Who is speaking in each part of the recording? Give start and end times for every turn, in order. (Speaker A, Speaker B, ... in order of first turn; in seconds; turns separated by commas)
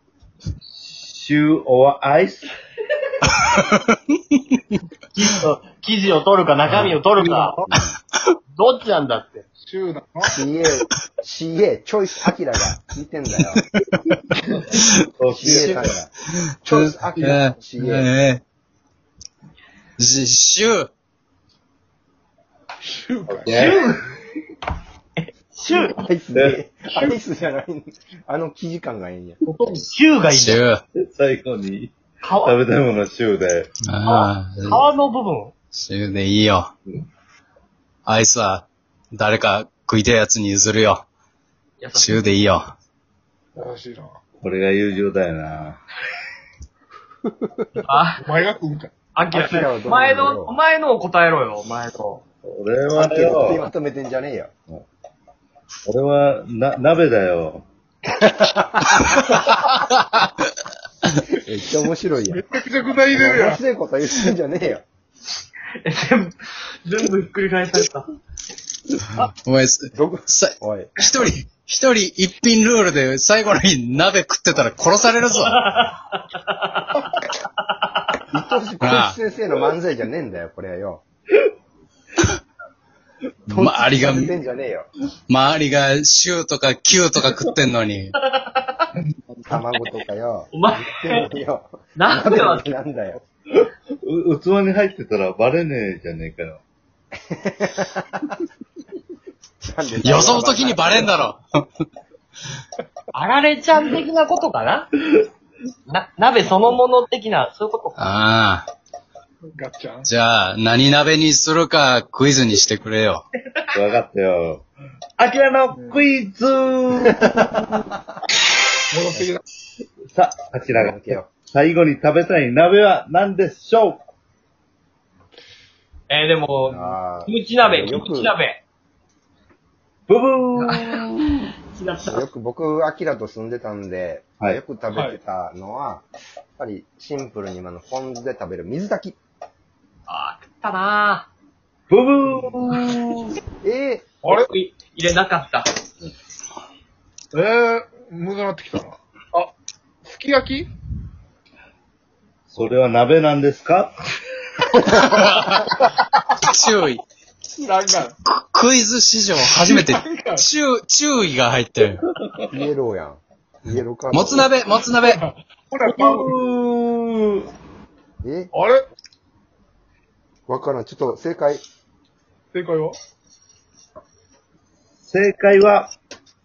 Speaker A: 0.7-2.5, Speaker B: 3.2-4.6, Speaker C: 5.1-7.6, Speaker B: 6.7-7.0, Speaker D: 7.2-7.6, Speaker E: 7.7-8.0, Speaker C: 8.6-9.4, Speaker D: 9.6-10.3, Speaker E: 10.3-13.6, Speaker B: 13.4-14.2, Speaker B: 14.8-15.0, Speaker A: 15.2-16.0, Speaker E: 15.3-16.1, Speaker E: 16.6-18.1, Speaker B: 16.6-18.4, Speaker B: 20.0-20.9, Speaker D: 22.8-23.8, Speaker A: 23.3-23.9, Speaker C: 23.5-24.0, Speaker C: 25.2-26.1, Speaker E: 25.7-29.4, Speaker C: 29.4-30.6, Speaker B: 30.3-30.8, Speaker A: 31.0-33.7, Speaker C: 32.2-32.6, Speaker B: 33.8-34.9, Speaker C: 34.0-35.5, Speaker B: 35.7-36.7, Speaker B: 38.1-41.0, Speaker C: 41.8-42.2, Speaker B: 42.0-42.8, Speaker D: 43.5-44.2, Speaker A: 44.4-45.8, Speaker E: 47.3-47.7, Speaker C: 47.9-48.2, Speaker D: 48.2-48.9, Speaker C: 49.1-52.2, Speaker E: 49.3-50.6, Speaker A: 52.4-53.6, Speaker E: 53.0-54.5, Speaker A: 55.9-57.7, Speaker E: 58.2-59.2, Speaker B: 59.0-60.3, Speaker E: 61.3-62.5, Speaker D: 62.3-63.6, Speaker E: 63.1-64.8, Speaker C: 65.8-66.3, Speaker C: 66.9-68.1, Speaker B: 69.2-75.7, Speaker E: 70.0-70.9, Speaker C: 75.4-77.1, Speaker C: 77.6-77.9, Speaker E: 78.3-81.0, Speaker B: 78.8-79.2, Speaker B: 83.5-84.3, Speaker E: 83.5-84.9, Speaker B: 85.3-88.1, Speaker C: 88.3-88.9, Speaker E: 89.5-93.2, Speaker C: 90.5-91.3, Speaker C: 92.0-92.8, Speaker A: 93.5-96.6, Speaker E: 97.3-98.4, Speaker E: 99.7-101.0, Speaker B: 100.0-101.4, Speaker C: 103.1-104.9, Speaker C: 105.9-108.0, Speaker B: 108.0-108.7, Speaker D: 109.5-110.1, Speaker B: 110.0-113.2, Speaker A: 113.7-114.7, Speaker A: 115.2-117.9, Speaker D: 115.7-116.0, Speaker D: 118.9-119.4, Speaker A: 120.1-124.0, Speaker E: 120.7-121.3, Speaker C: 126.1-128.6, Speaker E: 126.7-128.3, Speaker A: 130.1-131.5, Speaker C: 130.7-131.0, Speaker C: 131.7-132.2, Speaker E: 132.1-136.1, Speaker D: 134.9-135.2, Speaker E: 136.6-139.2, Speaker C: 140.1-141.3, Speaker A: 141.9-143.4, Speaker E: 143.6-144.1, Speaker C: 144.3-145.7, Speaker D: 147.3-149.5, Speaker D: 150.0-150.7, Speaker A: 152.5-153.9, Speaker B: 154.8-155.9, Speaker B: 156.4-157.0, Speaker D: 157.5-158.2, Speaker B: 158.3-162.0, Speaker D: 159.6-160.5, Speaker E: 162.5-164.5, Speaker B: 164.1-165.2, Speaker D: 165.1-166.3, Speaker A: 165.9-167.5, Speaker E: 168.2-168.5, Speaker D: 168.5-168.8, Speaker E: 170.5-171.6, Speaker D: 172.5-173.0, Speaker A: 175.0-175.9